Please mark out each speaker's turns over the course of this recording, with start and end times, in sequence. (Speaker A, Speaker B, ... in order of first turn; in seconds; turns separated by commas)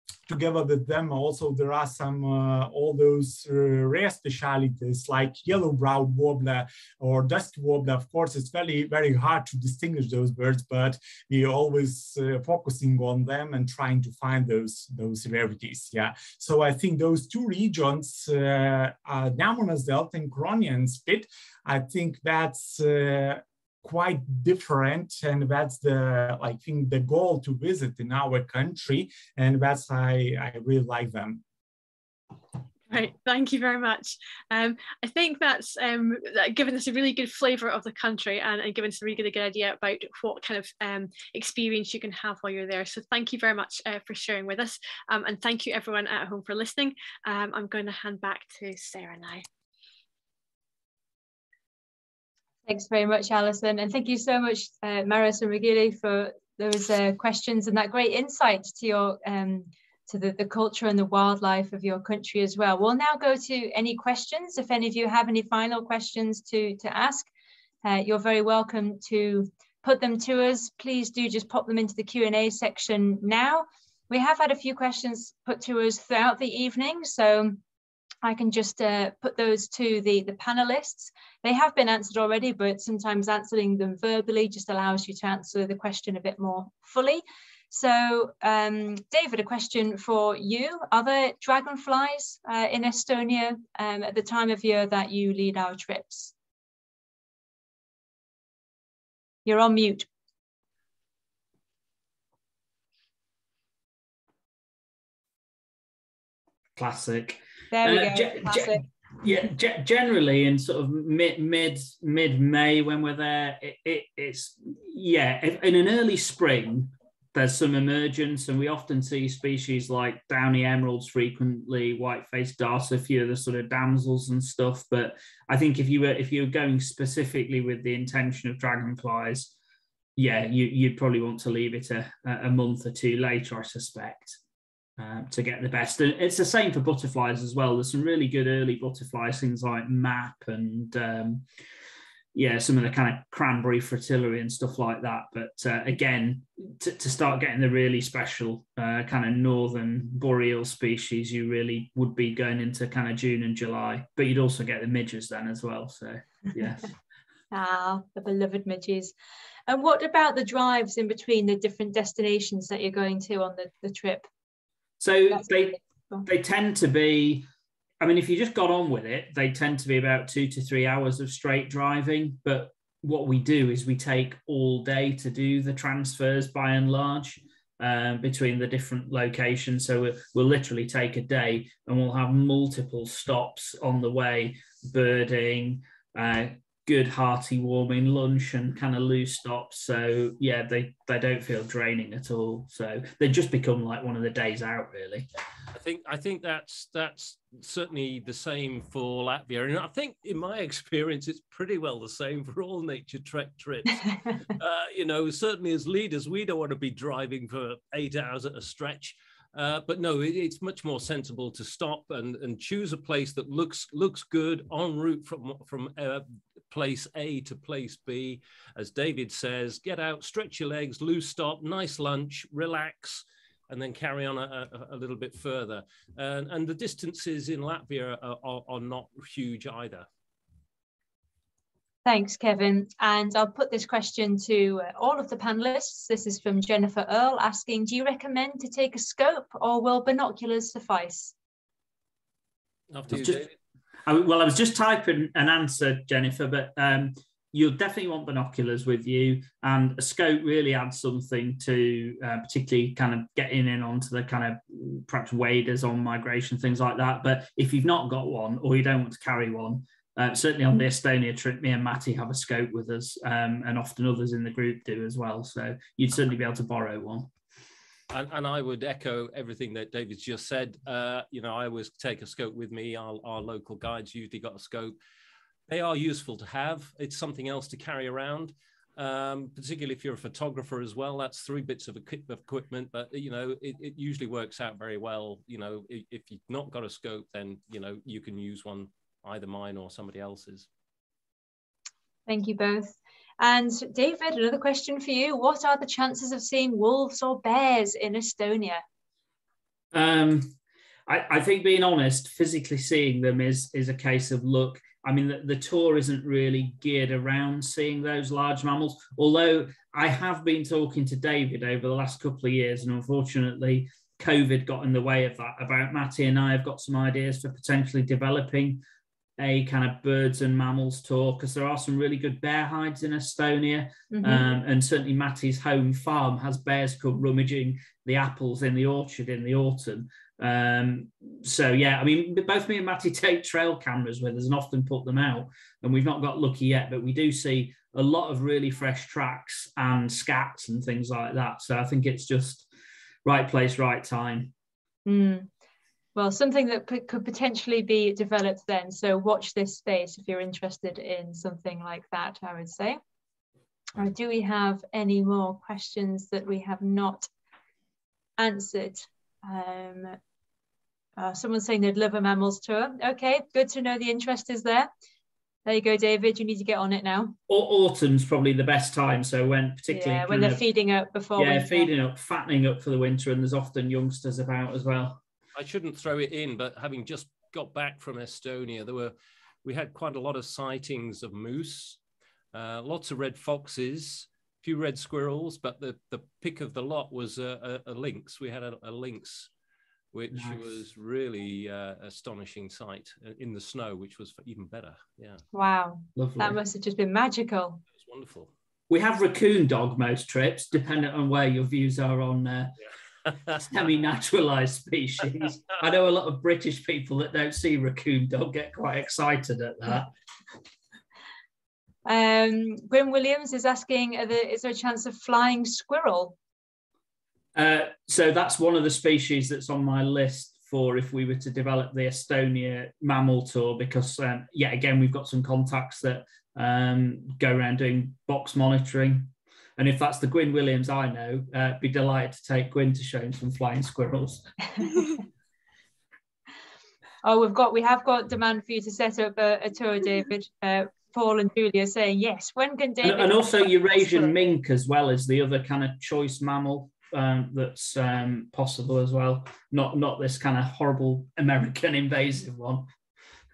Speaker A: 0.3-31.4, Speaker B: 32.9-49.4, Speaker C: 52.6-67.3, Speaker C: 67.8-77.6, Speaker C: 78.2-96.3, Speaker C: 99.5-100.1, Speaker D: 106.8-129.5, Speaker C: 107.7-108.8, Speaker D: 130.2-134.4, Speaker D: 135.0-141.4, Speaker D: 142.3-156.9, Speaker C: 157.5-159.1, Speaker C: 159.7-164.3, Speaker D: 165.0-167.4, Speaker C: 165.3-166.2, Speaker D: 168.0-195.3, Speaker E: 195.7-230.1, Speaker C: 232.0-241.3, Speaker E: 242.9-243.5, Speaker D: 243.1-243.4, Speaker D: 244.0-267.3, Speaker E: 268.1-274.9, Speaker E: 275.7-290.7, Speaker C: 292.3-298.8, Speaker D: 299.9-300.5, Speaker D: 301.1-318.8, Speaker D: 319.4-342.7, Speaker C: 324.1-324.5, Speaker D: 343.2-344.5, Speaker C: 345.1-345.5, Speaker C: 346.1-353.0, Speaker C: 353.9-357.3, Speaker C: 358.4-360.2, Speaker C: 361.2-364.9, Speaker C: 365.6-367.4, Speaker D: 367.5-370.6, Speaker C: 369.9-371.9, Speaker D: 371.4-375.2, Speaker E: 375.5-382.0, Speaker E: 382.5-389.5, Speaker E: 390.1-395.4, Speaker D: 390.3-390.6, Speaker C: 395.5-397.8, Speaker D: 396.1-396.6, Speaker E: 398.0-398.5, Speaker D: 398.9-402.7, Speaker D: 403.5-410.1, Speaker C: 412.1-416.4, Speaker D: 417.5-434.5, Speaker C: 437.2-444.3, Speaker D: 443.0-452.9